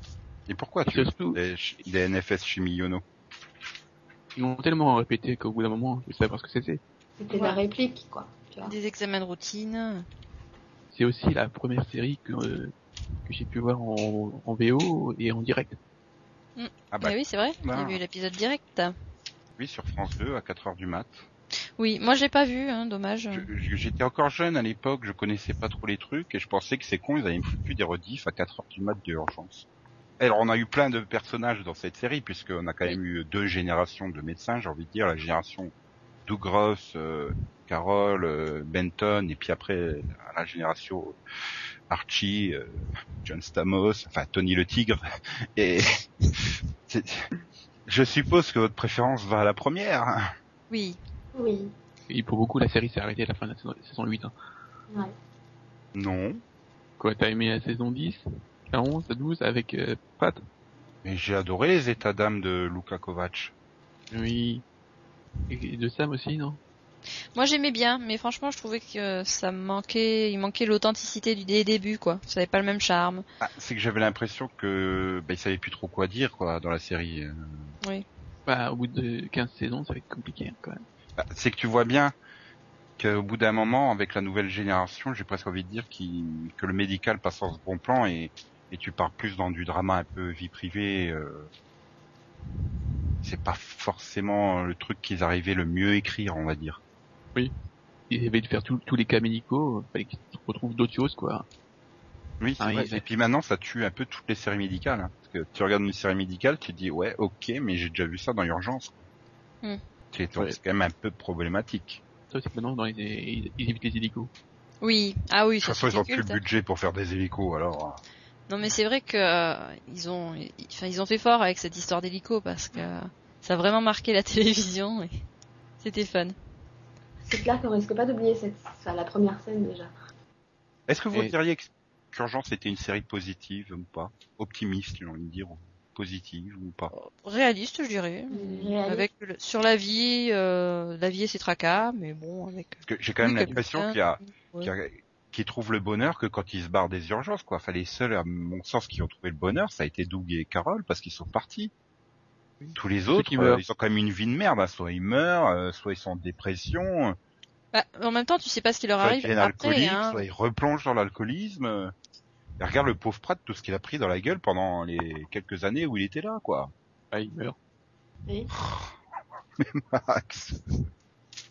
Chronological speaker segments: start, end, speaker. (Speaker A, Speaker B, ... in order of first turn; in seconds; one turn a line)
Speaker A: 0.5-3.0
Speaker B: 0.9-1.4
Speaker B: 4.3-6.8
Speaker C: 7.2-8.8
Speaker D: 7.3-7.6
Speaker D: 8.7-10.0
Speaker B: 10.9-12.7
Speaker B: 13.3-15.8
Speaker D: 16.6-18.9
Speaker A: 16.9-18.0
Speaker A: 19.6-21.3
Speaker D: 21.8-23.5
Speaker A: 23.3-29.7
Speaker A: 30.2-35.7
Speaker A: 36.3-41.2
Speaker A: 41.9-45.0
Speaker A: 45.6-45.9
Speaker A: 46.9-47.2
Speaker A: 47.9-50.2
Speaker D: 50.7-51.0
Speaker C: 51.4-51.7
Speaker B: 52.1-54.3
Speaker A: 55.9-56.4
Speaker B: 57.0-60.4
Speaker A: 61.0-63.5
Speaker B: 64.1-64.6
Speaker B: 65.5-66.6
Speaker D: 67.3-73.2
Speaker A: 73.4-77.7
Speaker B: 78.5-80.8
Speaker A: 81.2-82.1
Speaker A: 83.0-91.5
Speaker A: 93.2-96.8
Speaker B: 98.1-101.5
Speaker A: 102.4-109.0
Speaker B: 102.6-103.0
Speaker A: 110.1-112.0
Speaker B: 112.3-114.3
Speaker D: 114.8-116.4
Speaker A: 115.6-118.0
Speaker D: 118.5-125.1
Speaker D: 125.8-126.3
Speaker C: 127.2-129.9
Speaker A: 130.9-136.9
Speaker D: 136.9-144.7
Speaker C: 138.3-139.1
Speaker A: 142.9-151.7
Speaker B: 152.6-153.6
Speaker A: 152.8-157.2
Speaker D: 157.7-160.2
Speaker A: 159.0-161.9
Speaker A: 162.6-166.7
Speaker B: 167.1-167.6
Speaker A: 168.5-168.9
Speaker A: 169.6-170.8